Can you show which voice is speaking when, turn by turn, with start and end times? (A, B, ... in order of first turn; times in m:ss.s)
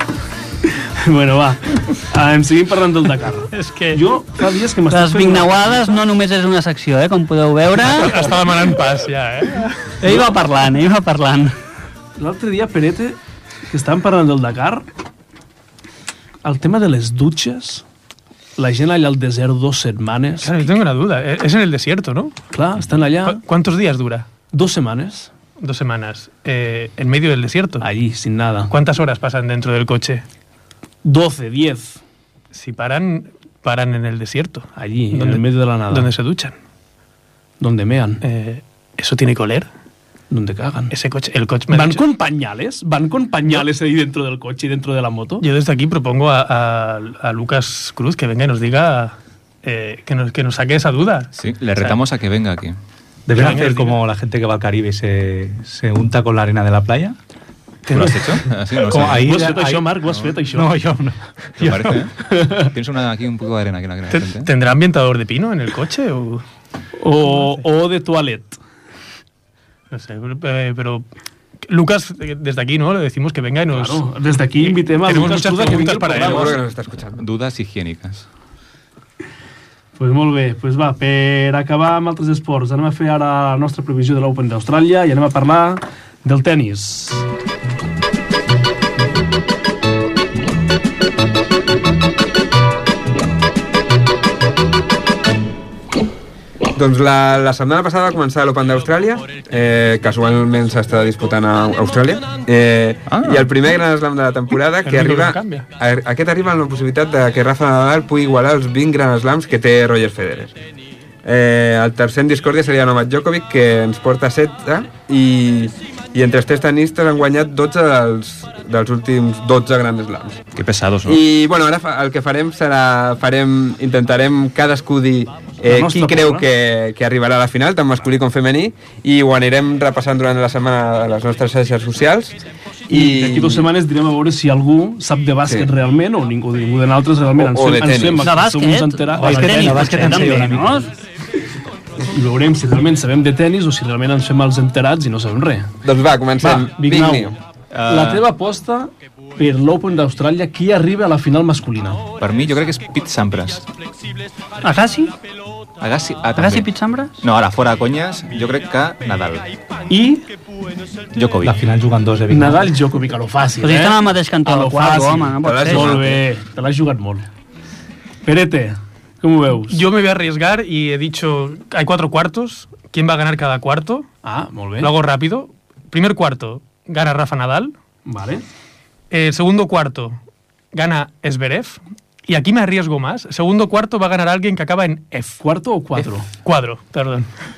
0:01.0-0:05.8 A
0:03.5-0:04.0 B
0:04.9-0:08.3 B
0:07.9-0:10.0 C
0:10.0-0:11.6 B
0:12.2-0:13.2 A
0:13.7-0:14.9 A
0:16.4-0:17.8 A
0:18.6-0:20.5 A
0:20.4-0:22.4 C
0:22.5-0:23.4 A
0:23.2-0:24.3 C
0:24.5-0:25.3 A
0:25.6-0:27.9 C
0:27.8-0:28.7 A
0:28.7-0:30.2 C
0:31.0-0:32.0 A
0:32.5-0:36.6 C
0:34.8-0:36.1 A
0:37.6-0:38.2 A
0:38.2-0:39.7 C
0:40.3-0:40.9 A
0:40.9-0:42.1 C
0:41.7-0:45.4 A
0:45.4-0:52.0 C
0:51.3-0:52.8 D
0:53.3-0:57.2 E
0:53.3-0:54.0 C
0:57.9-0:58.2 C
0:57.9-0:59.3 D
0:58.8-1:02.1 E
0:59.2-1:00.7 A
1:01.6-1:04.5 D
1:02.3-1:02.7 A
1:04.1-1:06.4 C
1:07.0-1:08.6 A
1:07.2-1:07.6 C
1:09.9-1:11.1 C
1:11.6-1:14.0 C
1:13.7-1:16.6 A
1:14.6-1:16.6 C
1:16.1-1:17.2 F
1:17.2-1:18.3 D
1:20.0-1:27.2 A
1:36.7-1:50.5 F
1:43.1-1:43.5 D
1:44.9-1:45.7 C
1:51.2-2:00.4 F
2:00.6-2:01.2 D
2:01.0-2:12.4 F
2:05.7-2:06.4 A
2:12.9-2:13.7 F
2:12.9-2:20.8 A
2:15.4-2:15.7 F
2:17.4-2:18.4 F
2:18.2-2:20.9 B
2:19.1-2:20.9 E
2:22.0-2:25.7 A
2:25.8-2:27.4 F
2:26.4-2:27.4 A
2:27.7-2:28.2 D
2:27.9-2:32.1 A
2:32.2-2:33.7 D
2:34.6-2:35.1 B
2:35.8-2:39.5 D
2:36.4-2:37.2 B
2:39.9-2:40.3 A
2:41.1-2:41.6 D
2:41.4-2:42.7 E
2:42.3-2:47.3 A
2:43.6-2:46.0 B
2:45.4-2:46.2 F
2:48.2-2:49.8 A
2:49.7-2:54.1 C
2:54.2-2:54.9 A
2:54.8-2:57.7 C
2:58.1-2:58.4 A
2:59.1-3:00.2 C
3:00.7-3:05.4 C
3:05.4-3:06.3 A
3:06.4-3:07.3 C